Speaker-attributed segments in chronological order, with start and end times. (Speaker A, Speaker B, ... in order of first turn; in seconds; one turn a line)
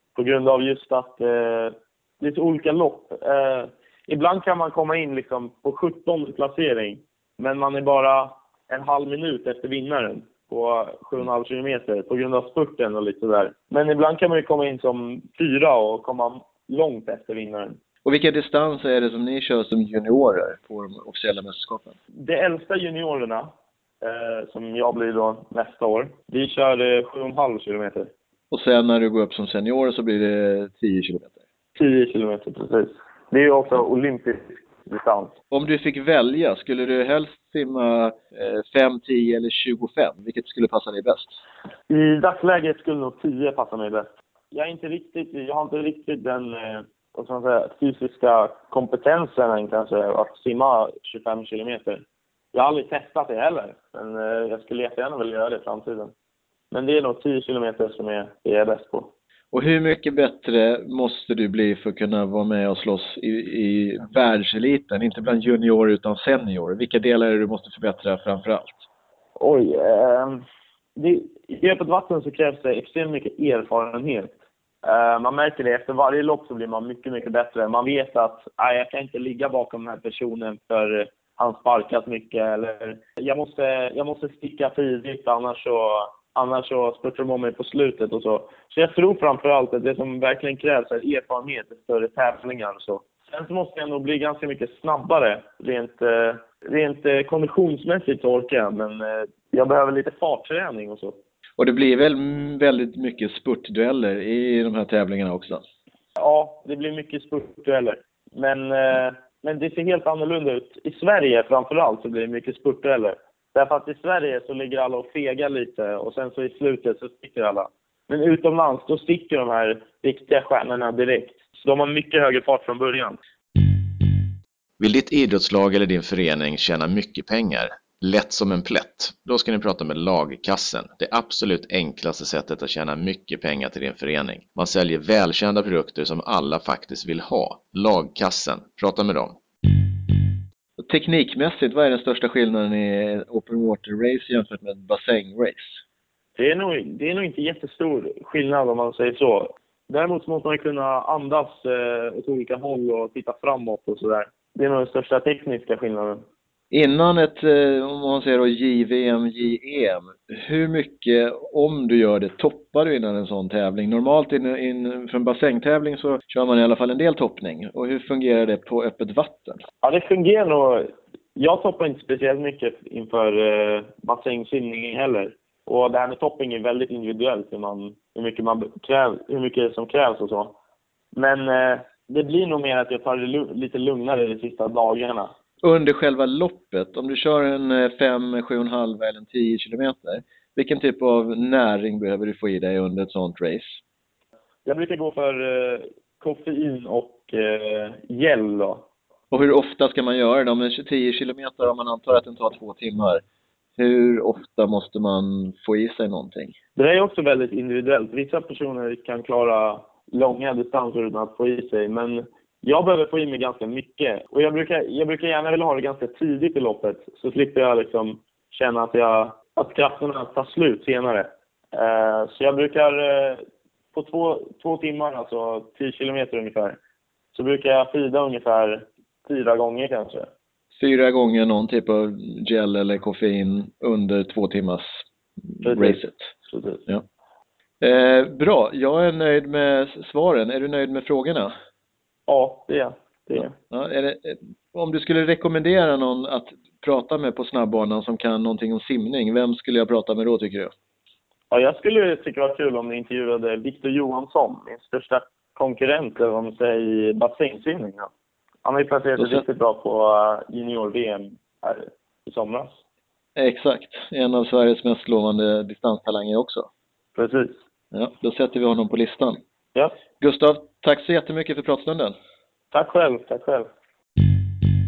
Speaker A: 0.2-17.8
Speaker B: 18.1-21.9
Speaker A: 22.2-28.1
Speaker B: 28.5-31.4
Speaker A: 31.8-35.4
Speaker B: 35.5-41.4
Speaker A: 41.9-56.1
Speaker A: 56.7-59.1
Speaker B: 59.5-68.9
Speaker A: 69.4-70.4
Speaker A: 71.0-101.2
Speaker B: 101.6-105.6
Speaker A: 106.2-123.2
Speaker C: 124.8-139.4
Speaker B: 140.8-145.8
Speaker A: 146.4-156.2
Speaker B: 156.7-169.6
Speaker A: 169.8-180.6
Speaker A: 181.1-185.3
Speaker B: 185.6-193.8
Speaker A: 194.7-198.9
Speaker B: 199.3-203.2
Speaker B: 203.8-206.5
Speaker A: 206.8-223.4
Speaker A: 223.9-226.8
Speaker A: 227.3-230.3
Speaker B: 230.7-236.3
Speaker A: 235.6-236.8
Speaker B: 237.8-241.5
Speaker A: 242.3-243.5
Speaker B: 243.7-250.7
Speaker A: 251.5-258.1
Speaker A: 258.6-262.8
Speaker B: 263.4-266.7
Speaker A: 267.2-267.6
Speaker B: 267.9-269.4
Speaker B: 270.2-272.1
Speaker A: 272.7-273.7